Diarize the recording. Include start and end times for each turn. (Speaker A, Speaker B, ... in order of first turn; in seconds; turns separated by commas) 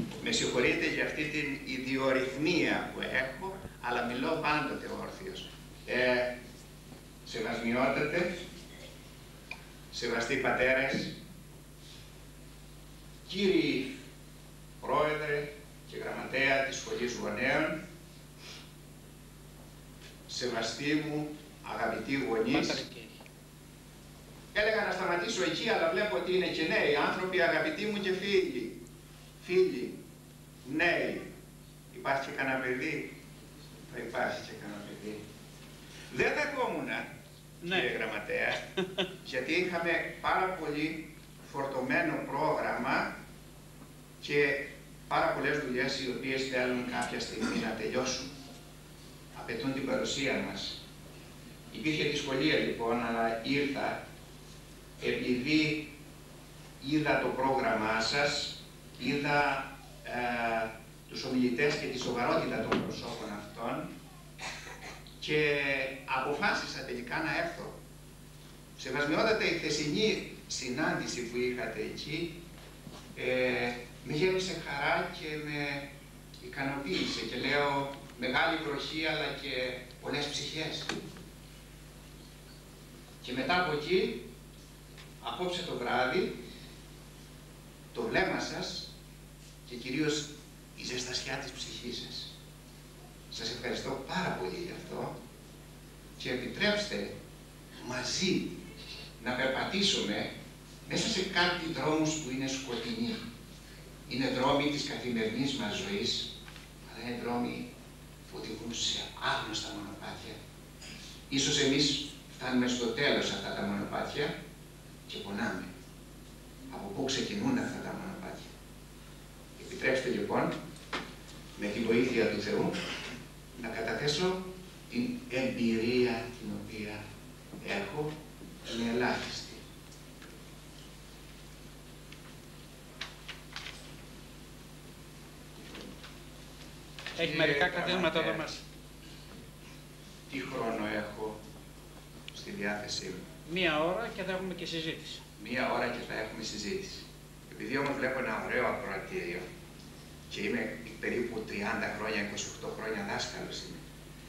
Speaker A: 0.2-6.3, Speaker A: 7.2-8.4, Speaker A: 9.9-11.2, Speaker A: 13.3-13.9, Speaker A: 14.8-17.8, Speaker A: 20.3-22.8, Speaker B: 22.5-23.1, Speaker A: 24.5-28.8, Speaker A: 29.4-30.0, Speaker A: 30.6-31.3, Speaker A: 31.9-33.1, Speaker A: 33.9-35.2, Speaker A: 36.1-37.1, Speaker B: 37.6-37.9, Speaker A: 37.6-38.6, Speaker A: 39.2-43.1, Speaker A: 44.2-48.3, Speaker A: 49.3-50.8, Speaker A: 51.7-54.0, Speaker A: 55.0-55.9, Speaker A: 56.8-63.9, Speaker A: 65.2-67.8, Speaker A: 68.8-72.4, Speaker A: 73.1-75.9, Speaker A: 76.4-81.0, Speaker A: 83.2-84.2, Speaker A: 85.2-86.4, Speaker A: 87.9-88.9, Speaker A: 89.6-92.3, Speaker A: 93.3-95.2, Speaker A: 96.2-97.2, Speaker A: 97.8-98.5, Speaker A: 99.2-100.3, Speaker A: 100.8-103.2, Speaker A: 104.1-106.3, Speaker A: 106.9-107.7, Speaker A: 108.3-110.4, Speaker A: 111.3-114.3, Speaker A: 115.1-115.7, Speaker A: 116.7-118.5, Speaker A: 119.6-120.6, Speaker A: 121.5-122.8, Speaker A: 123.5-127.0, Speaker A: 127.6-129.6, Speaker A: 137.1-138.5, Speaker B: 137.1-138.6, Speaker A: 140.3-141.4, Speaker A: 142.3-143.2, Speaker B: 143.4-145.2, Speaker A: 145.4-149.4, Speaker A: 150.3-153.8